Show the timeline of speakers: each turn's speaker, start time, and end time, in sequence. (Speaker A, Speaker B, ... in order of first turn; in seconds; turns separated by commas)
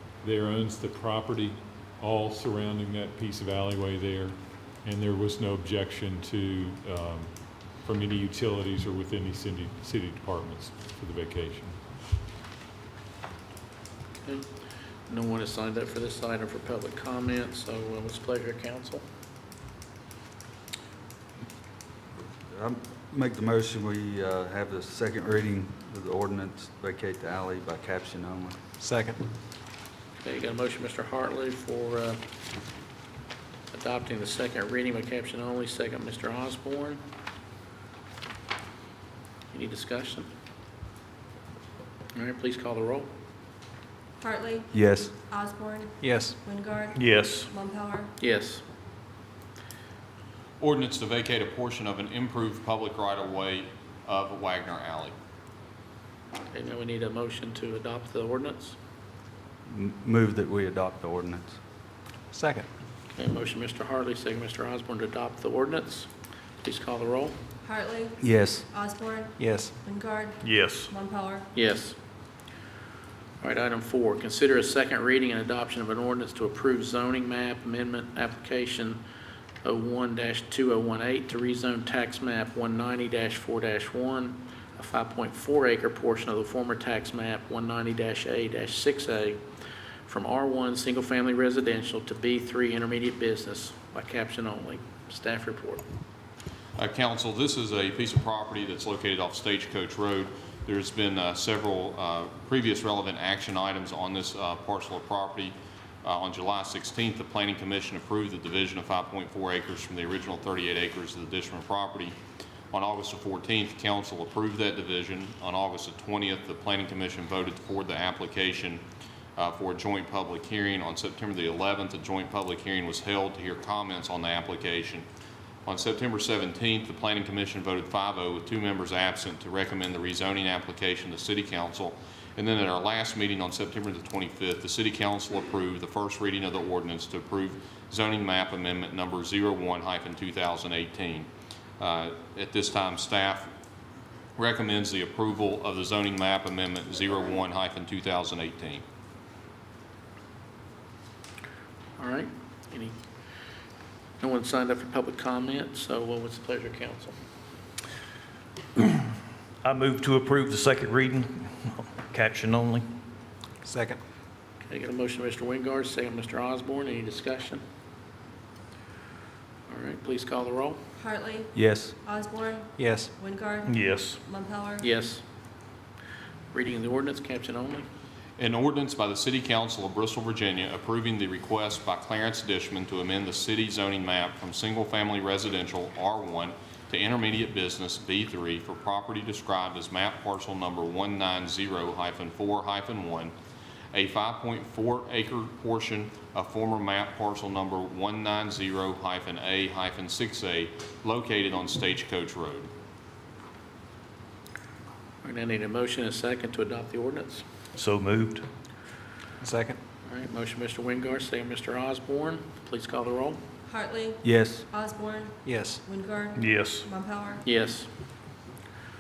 Speaker A: 0.2-11.8, Speaker B: 15.1-19.0, Speaker C: 22.5-28.6, Speaker D: 28.8-29.2, Speaker B: 30.2-32.2, Speaker B: 33.7-37.0, Speaker B: 39.5-40.3, Speaker B: 42.1-43.1, Speaker E: 44.2-48.1, Speaker C: 44.7-45.1, Speaker D: 46.0-46.4, Speaker F: 46.9-47.5, Speaker B: 48.2-48.6, Speaker G: 50.6-55.1, Speaker B: 56.5-58.8, Speaker C: 59.7-61.6, Speaker D: 62.3-62.7, Speaker B: 63.2-66.1, Speaker B: 66.6-67.3, Speaker E: 67.6-71.5, Speaker C: 68.2-68.7, Speaker D: 69.4-69.7, Speaker F: 70.4-70.9, Speaker B: 71.5-72.0, Speaker B: 73.4-79.0, Speaker B: 79.6-89.4, Speaker B: 90.1-95.8, Speaker G: 96.8-112.2, Speaker G: 112.7-118.8, Speaker G: 119.4-125.0, Speaker G: 125.7-141.3, Speaker G: 141.8-143.5, Speaker G: 144.4-148.8, Speaker B: 152.0-152.9, Speaker B: 154.2-157.2, Speaker F: 159.6-162.9, Speaker D: 163.6-164.0, Speaker B: 164.7-167.6, Speaker B: 169.7-170.8, Speaker E: 171.0-174.9, Speaker D: 172.8-173.1, Speaker F: 173.7-174.2, Speaker B: 174.8-175.2, Speaker B: 176.5-177.8, Speaker G: 178.4-193.3, Speaker G: 193.9-202.7, Speaker B: 205.2-207.4, Speaker F: 207.8-208.4, Speaker D: 209.4-209.8, Speaker B: 210.1-213.4, Speaker E: 213.7-217.4, Speaker C: 214.2-214.7, Speaker D: 215.4-215.8, Speaker F: 216.3-216.9, Speaker B: 217.4-217.9